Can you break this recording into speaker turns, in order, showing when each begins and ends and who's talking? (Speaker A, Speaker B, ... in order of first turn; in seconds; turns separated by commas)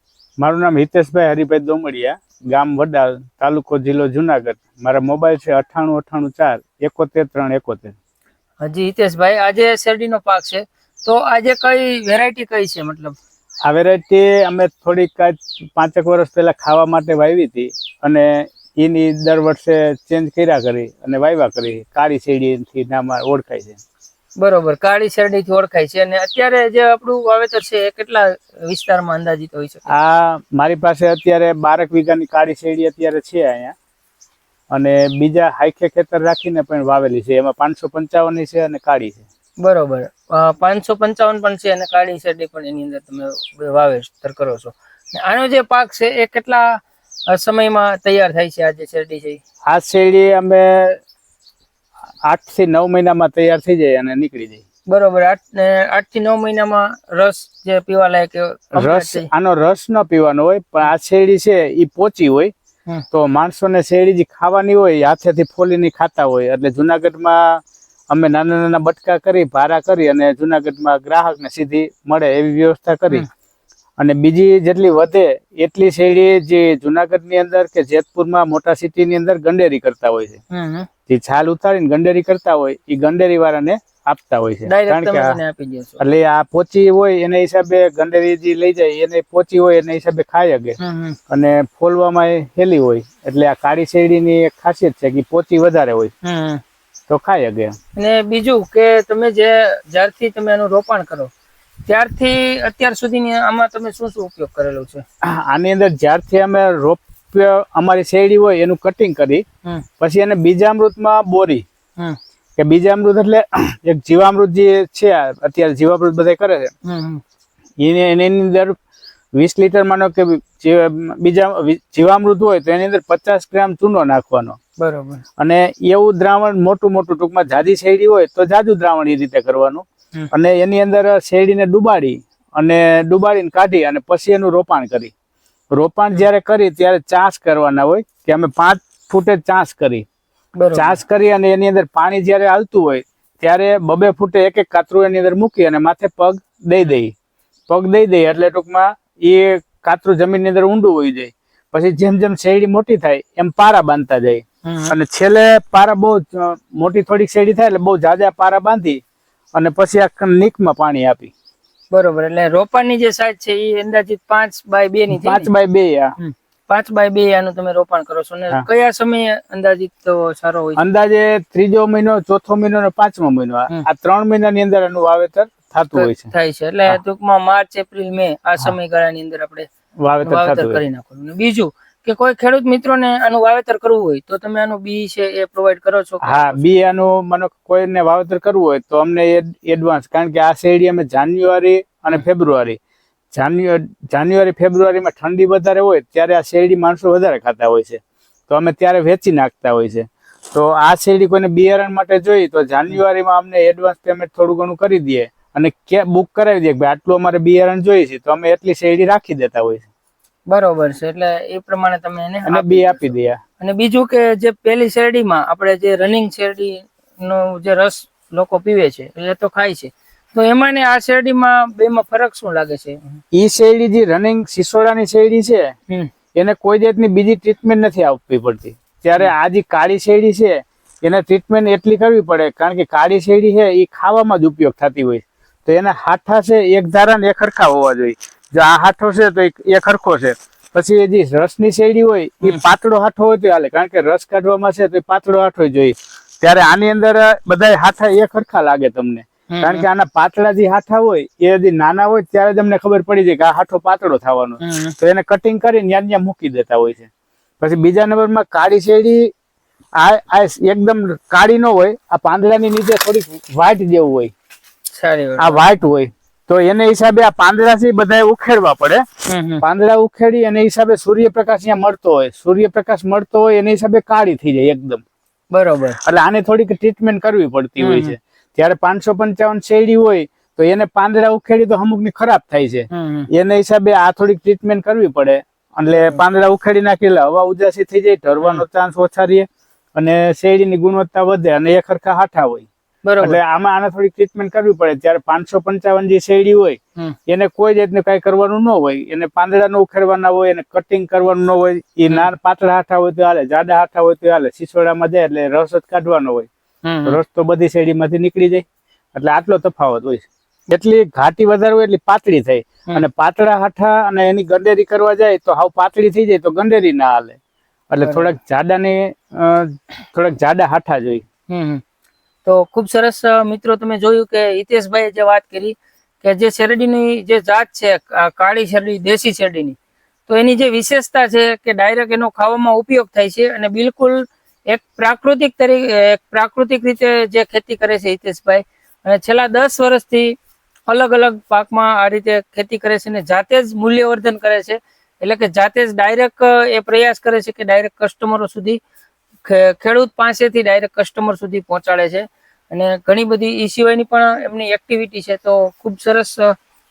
Speaker A: 0.4-8.0, Speaker B: 8.6-13.2, Speaker A: 13.7-23.8, Speaker B: 24.4-29.9, Speaker A: 29.9-33.7, Speaker A: 34.7-39.2, Speaker B: 39.6-49.4, Speaker A: 49.7-51.0, Speaker A: 52.2-54.6, Speaker B: 54.9-59.3, Speaker A: 58.7-62.5, Speaker A: 63.1-73.2, Speaker A: 74.0-80.4, Speaker B: 80.5-80.9, Speaker A: 81.1-85.4, Speaker B: 84.7-86.0, Speaker A: 86.0-90.8, Speaker B: 90.8-91.2, Speaker A: 91.3-96.1, Speaker B: 96.2-96.6, Speaker A: 97.1-97.7, Speaker B: 98.0-101.3, Speaker B: 101.9-105.0, Speaker A: 105.2-109.4, Speaker A: 110.0-111.6, Speaker A: 112.6-116.7, Speaker B: 116.8-117.2, Speaker A: 117.8-118.8, Speaker A: 119.4-124.6, Speaker B: 124.8-125.2, Speaker A: 125.4-135.1, Speaker A: 135.7-140.1, Speaker B: 140.6-141.0, Speaker A: 140.7-147.1, Speaker A: 147.7-159.0, Speaker B: 154.6-154.9, Speaker A: 159.6-161.3, Speaker B: 161.9-165.5, Speaker A: 165.1-166.1, Speaker B: 166.2-170.8, Speaker A: 170.8-176.3, Speaker B: 175.9-179.7, Speaker A: 180.0-180.8, Speaker B: 180.2-186.6, Speaker A: 186.2-192.8, Speaker A: 193.3-209.9, Speaker B: 210.5-223.2, Speaker A: 212.5-213.4, Speaker A: 223.3-225.7, Speaker A: 226.3-257.1, Speaker B: 249.5-249.8, Speaker B: 254.6-254.9, Speaker A: 257.6-259.3, Speaker A: 260.0-264.3, Speaker B: 264.9-265.7, Speaker A: 265.4-269.0, Speaker B: 269.3-269.6, Speaker A: 269.6-275.0, Speaker B: 275.5-276.0, Speaker A: 276.0-292.7, Speaker B: 277.8-278.1, Speaker B: 282.9-283.3, Speaker B: 285.9-286.2, Speaker B: 293.0-293.4, Speaker A: 293.2-306.5, Speaker B: 306.8-307.2, Speaker A: 307.1-308.6, Speaker A: 309.1-317.4, Speaker A: 317.9-321.2, Speaker B: 318.0-318.3, Speaker B: 321.5-321.8, Speaker B: 322.4-329.8, Speaker B: 330.3-340.3, Speaker B: 340.9-348.8, Speaker B: 349.4-356.5